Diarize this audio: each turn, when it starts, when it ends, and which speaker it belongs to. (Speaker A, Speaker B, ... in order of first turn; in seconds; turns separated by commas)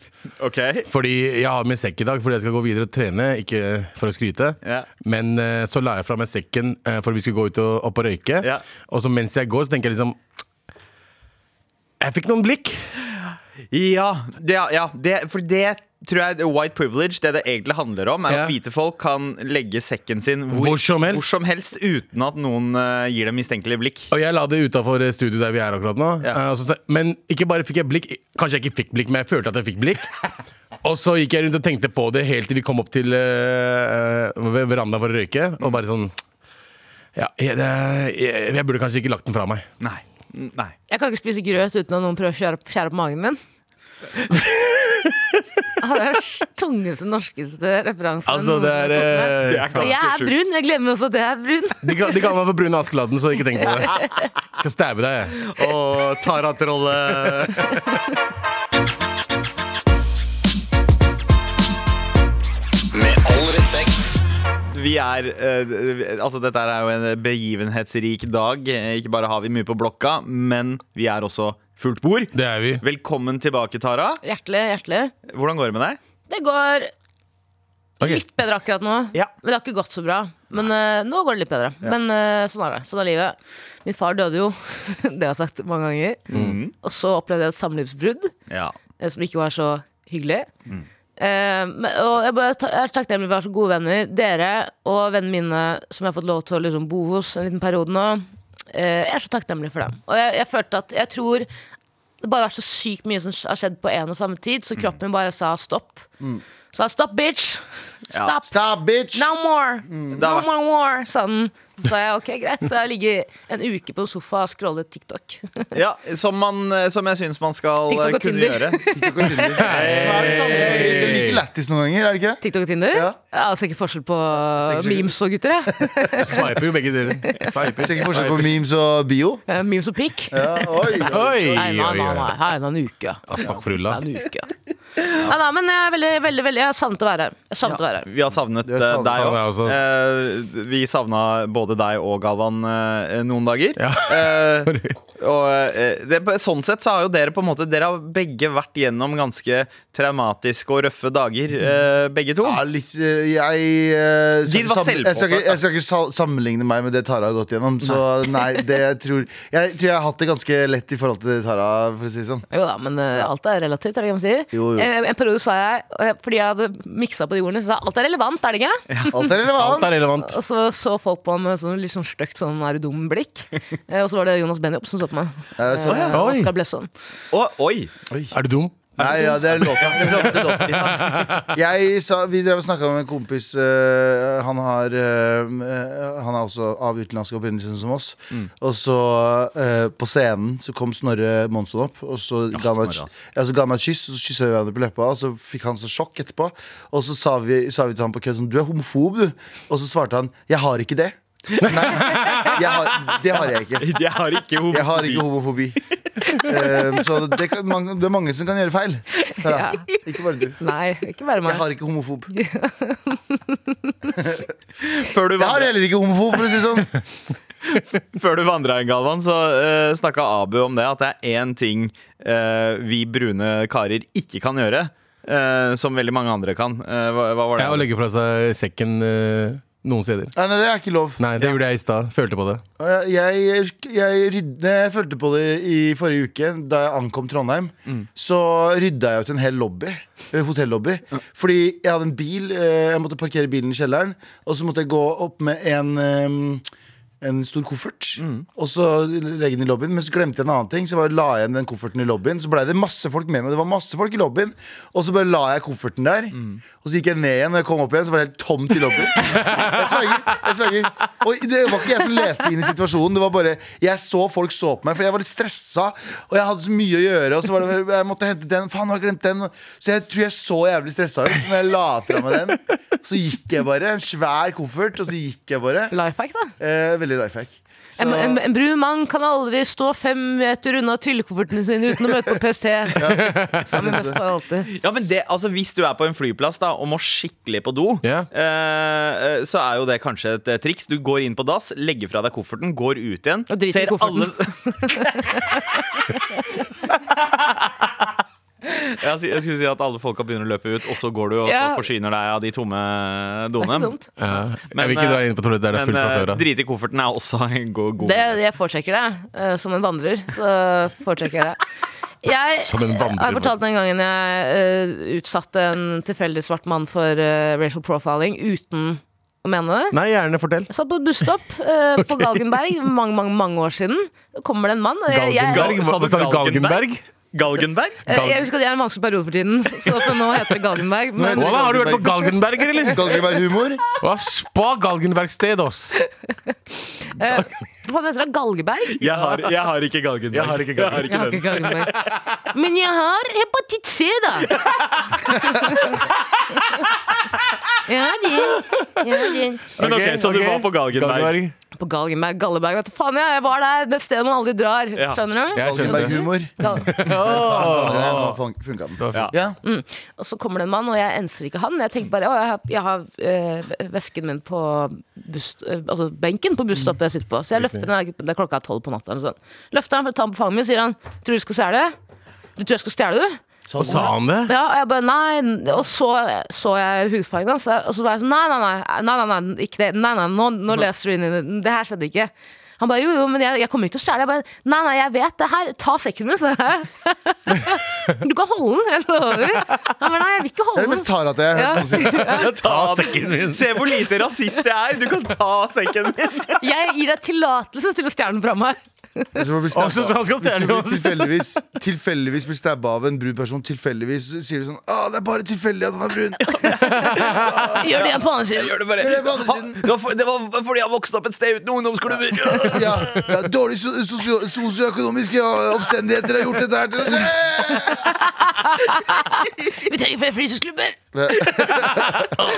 Speaker A: 0.4-0.9, Speaker B: 0.9-10.2, Speaker A: 4.6-4.9, Speaker B: 12.0-12.8, Speaker A: 13.7-24.1, Speaker B: 18.3-18.5, Speaker B: 20.5-21.2, Speaker B: 24.1-30.1, Speaker B: 30.8-36.1, Speaker B: 37.1-39.6, Speaker A: 39.8-40.7, Speaker C: 40.9-43.4, Speaker B: 44.4-45.2, Speaker C: 45.8-52.0, Speaker B: 48.3-49.9, Speaker A: 49.4-50.3, Speaker B: 51.8-55.4, Speaker A: 55.4-57.8, Speaker A: 63.0-64.0, Speaker A: 64.7-74.2, Speaker B: 72.3-72.8, Speaker C: 74.2-75.1, Speaker A: 75.3-76.0, Speaker C: 76.3-76.9, Speaker C: 78.0-86.2, Speaker A: 86.3-86.7, Speaker C: 86.8-88.3, Speaker A: 88.5-88.7, Speaker C: 89.0-90.5, Speaker C: 91.2-101.5, Speaker C: 102.2-106.0, Speaker C: 106.7-108.6, Speaker D: 108.5-109.3, Speaker C: 109.1-115.7, Speaker D: 109.9-110.2, Speaker A: 110.2-110.5, Speaker A: 115.7-118.8, Speaker C: 117.9-119.6, Speaker D: 118.9-122.4, Speaker A: 119.6-121.2, Speaker B: 119.6-121.4, Speaker C: 122.4-126.6, Speaker D: 124.5-125.1, Speaker B: 126.2-128.5, Speaker C: 127.2-127.5, Speaker D: 127.8-129.4, Speaker C: 129.5-134.5, Speaker D: 130.3-131.9, Speaker B: 131.0-132.3, Speaker B: 133.2-134.0, Speaker C: 135.1-138.1, Speaker A: 138.0-152.6, Speaker D: 138.6-139.4, Speaker B: 139.1-139.8, Speaker B: 143.8-145.0, Speaker D: 152.4-162.4, Speaker A: 154.4-155.6, Speaker C: 162.5-168.8, Speaker D: 164.5-164.9, Speaker A: 168.9-169.2, Speaker D: 169.1-170.1, Speaker B: 169.6-170.4, Speaker C: 170.2-176.9, Speaker D: 175.6-176.2, Speaker A: 175.9-176.2, Speaker B: 176.1-176.5, Speaker A: 177.3-177.9, Speaker D: 178.1-178.3, Speaker B: 178.3-181.5, Speaker D: 179.0-204.0, Speaker A: 180.7-181.2, Speaker A: 192.5-193.2, Speaker B: 201.6-202.7, Speaker A: 203.8-205.2, Speaker D: 204.7-210.6, Speaker C: 209.3-209.9, Speaker C: 210.6-211.6, Speaker D: 211.4-212.3, Speaker C: 212.3-214.1, Speaker D: 214.2-214.5, Speaker A: 214.8-215.7, Speaker D: 215.4-216.9, Speaker A: 217.7-227.8, Speaker B: 227.6-230.3, Speaker D: 230.3-231.2, Speaker B: 231.2-232.6, Speaker D: 232.8-246.6, Speaker D: 247.2-275.9, Speaker A: 248.2-248.4, Speaker A: 256.4-256.6, Speaker C: 275.9-276.5, Speaker D: 276.6-278.4, Speaker C: 278.0-284.7, Speaker D: 282.9-284.1, Speaker B: 283.0-284.0, Speaker A: 284.7-295.3, Speaker C: 293.5-295.8, Speaker A: 298.6-303.9, Speaker C: 301.4-301.9, Speaker C: 303.6-304.1, Speaker B: 304.2-306.4, Speaker A: 304.7-308.4, Speaker C: 308.0-311.6, Speaker C: 312.2-320.0, Speaker B: 312.6-313.5, Speaker B: 319.9-320.7, Speaker C: 320.7-325.8, Speaker B: 322.0-322.5, Speaker B: 325.1-327.0, Speaker A: 325.5-328.0, Speaker C: 328.1-332.0, Speaker B: 328.1-328.4, Speaker D: 331.1-333.8, Speaker B: 331.4-333.1, Speaker B: 334.0-336.0, Speaker C: 337.0-339.1, Speaker B: 337.2-337.5, Speaker A: 339.0-341.9, Speaker B: 339.1-339.4, Speaker B: 340.3-342.3, Speaker C: 341.1-344.6, Speaker B: 344.5-345.9, Speaker C: 345.3-346.0, Speaker C: 347.8-349.7, Speaker B: 348.4-351.5, Speaker A: 349.8-351.4, Speaker C: 351.8-356.9, Speaker D: 355.5-359.6, Speaker B: 355.5-356.2, Speaker B: 356.8-358.4, Speaker B: 359.0-359.3, Speaker C: 359.6-371.9, Speaker C: 372.6-373.4, Speaker D: 373.7-374.2, Speaker B: 373.8-374.5, Speaker C: 374.4-392.6, Speaker D: 390.7-392.4, Speaker B: 392.2-394.0, Speaker A: 392.4-396.6, Speaker C: 396.6-399.3, Speaker D: 399.3-406.6, Speaker B: 399.7-401.4, Speaker A: 406.4-413.3, Speaker B: 406.8-407.7, Speaker C: 406.8-408.8, Speaker D: 407.2-407.8, Speaker D: 409.0-409.8, Speaker D: 412.6-418.3, Speaker C: 417.8-420.9, Speaker D: 421.1-422.4, Speaker B: 421.8-422.4